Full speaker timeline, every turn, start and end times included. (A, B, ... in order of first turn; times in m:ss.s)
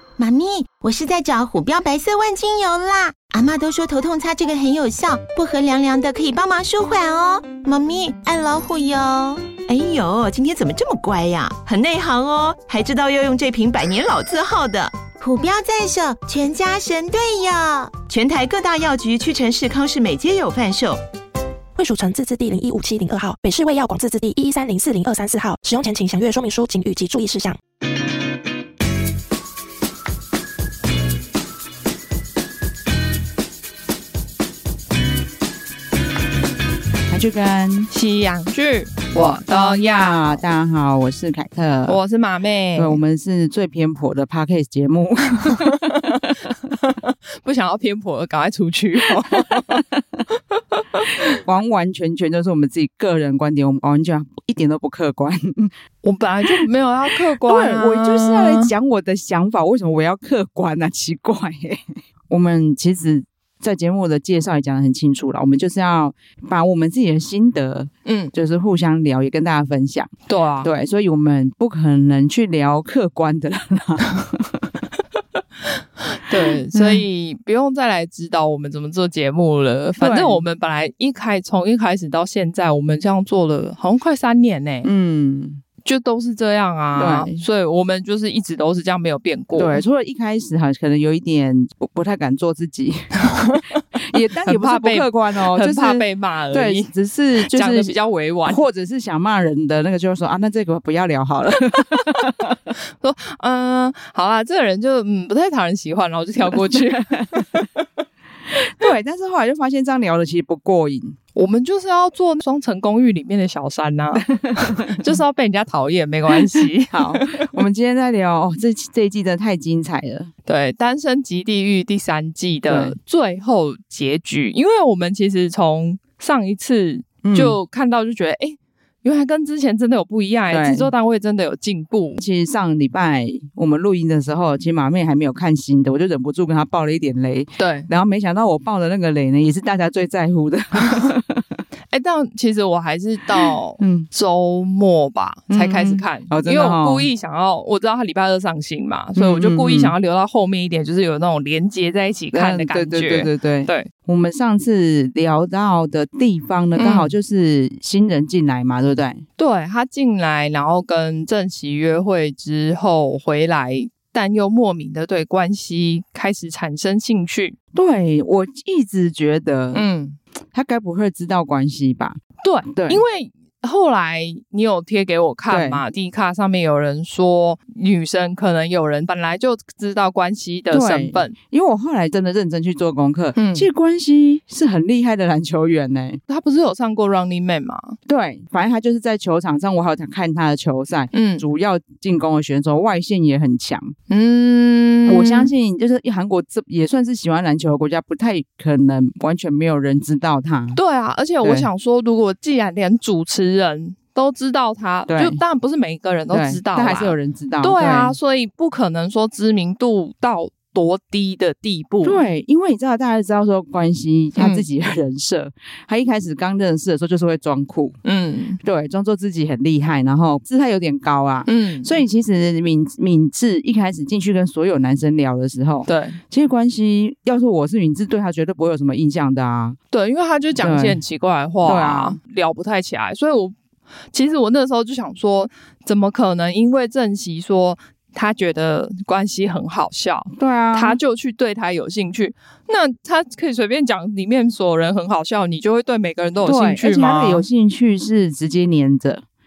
0:00.2-0:09.5 A
0:09.7-0:15.0 B
0:15.2-0:18.0 A
0:18.0-0:21.0 B
0:21.8-0:27.6 C
0:37.1-0:37.9 D
0:37.9-0:40.4 E
0:39.2-0:42.0 D
0:41.9-0:43.0 E
0:42.8-0:46.3 D
0:45.4-0:49.8 E
0:49.0-0:50.2 D
0:51.0-0:51.3 E
0:51.3-0:55.7 D
0:56.0-0:58.7 E
0:57.3-1:14.6 D
1:08.1-1:08.3 E
1:10.3-1:10.7 E
1:16.1-1:24.9 E
1:16.7-1:17.0 D
1:20.0-1:20.4 D
1:24.8-1:25.6 D
1:25.8-1:29.8 E
1:27.0-1:27.4 D
1:29.6-1:33.2 D
1:33.2-1:33.8 E
1:34.1-1:37.9 D
1:34.4-1:36.9 E
1:37.4-1:38.6 E
1:38.4-1:42.6 D
1:43.0-1:47.9 E
1:46.5-1:47.0 D
1:48.6-1:51.2 D
1:51.3-1:57.5 E
1:54.4-1:55.0 D
1:56.9-2:00.3 D
2:00.4-2:12.2 E
2:02.7-2:02.9 D
2:07.2-2:07.6 D
2:10.5-2:10.9 D
2:12.2-2:21.6 D
2:17.6-2:17.9 E
2:21.9-2:33.9 E
2:23.8-2:24.1 D
2:25.5-2:27.1 D
2:29.2-2:29.9 D
2:32.3-2:39.2 D
2:36.8-2:37.1 E
2:39.4-2:47.6 E
2:47.7-2:49.8 D
2:49.7-2:50.2 E
2:50.5-2:52.2 D
2:52.4-3:01.3 E
2:52.7-2:53.0 D
2:55.5-2:55.8 D
3:00.7-3:06.2 D
3:03.3-3:03.7 E
3:06.3-3:08.0 E
3:08.0-3:13.9 D
3:11.1-3:11.4 E
3:14.1-3:15.5 E
3:15.0-3:20.8 D
3:20.7-3:32.2 E
3:21.4-3:21.7 D
3:25.1-3:25.4 D
3:26.3-3:28.1 D
3:32.0-3:38.0 D
3:34.4-3:34.6 E
3:38.0-3:38.6 E
3:38.6-3:49.8 D
3:41.4-3:42.0 E
3:45.8-3:46.2 E
3:49.9-3:53.5 E
3:50.6-3:51.0 D
3:51.6-3:52.2 D
3:54.1-4:07.4 E
4:00.3-4:01.0 D
4:06.4-4:09.2 D